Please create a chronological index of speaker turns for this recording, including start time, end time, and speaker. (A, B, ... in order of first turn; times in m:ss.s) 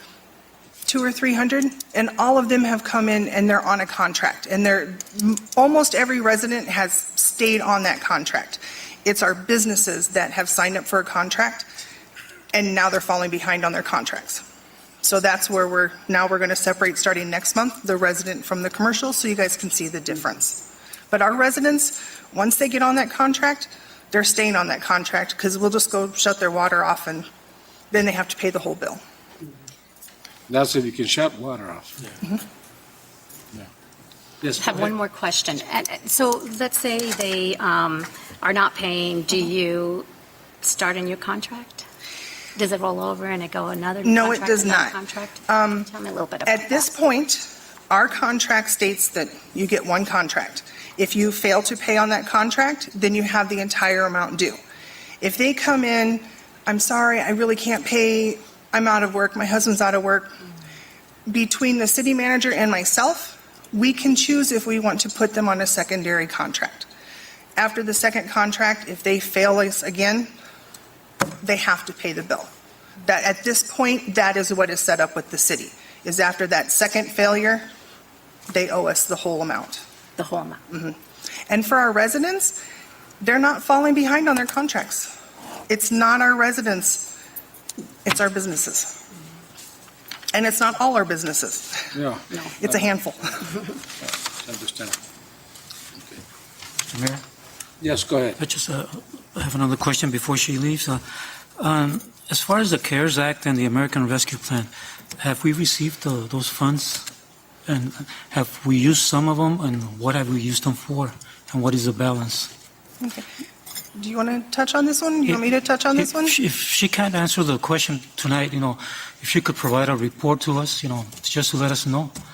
0:00.9-0:11.7 A
0:12.5-0:14.4 A
0:15.0-0:27.3 A
0:27.9-0:29.0 A
0:30.5-0:32.1 B
0:34.4-0:34.9 B
0:34.6-0:40.1 C
0:40.6-0:41.8 C
0:42.6-0:47.0 C
0:44.0-0:45.9 A
0:46.5-0:54.6 A
0:55.2-1:00.4 A
1:01.3-1:06.9 A
1:07.6-1:10.3 A
1:11.4-1:12.5 A
1:13.0-1:17.7 A
1:18.5-1:19.8 A
1:20.2-1:20.6 C
1:20.7-1:22.6 A
1:23.2-1:25.1 A
1:25.7-1:27.1 A
1:28.0-1:28.9 A
1:30.3-1:32.0 A
1:31.9-1:32.8 B
1:32.5-1:33.5 A
1:34.0-1:35.0 B
1:36.9-1:37.2 D
1:37.8-1:38.4 B
1:38.4-1:41.0 D
1:41.6-1:47.1 D
1:47.7-1:52.5 D
1:53.0-1:53.3 A
1:54.0-1:56.4 A
1:55.3-2:02.1 D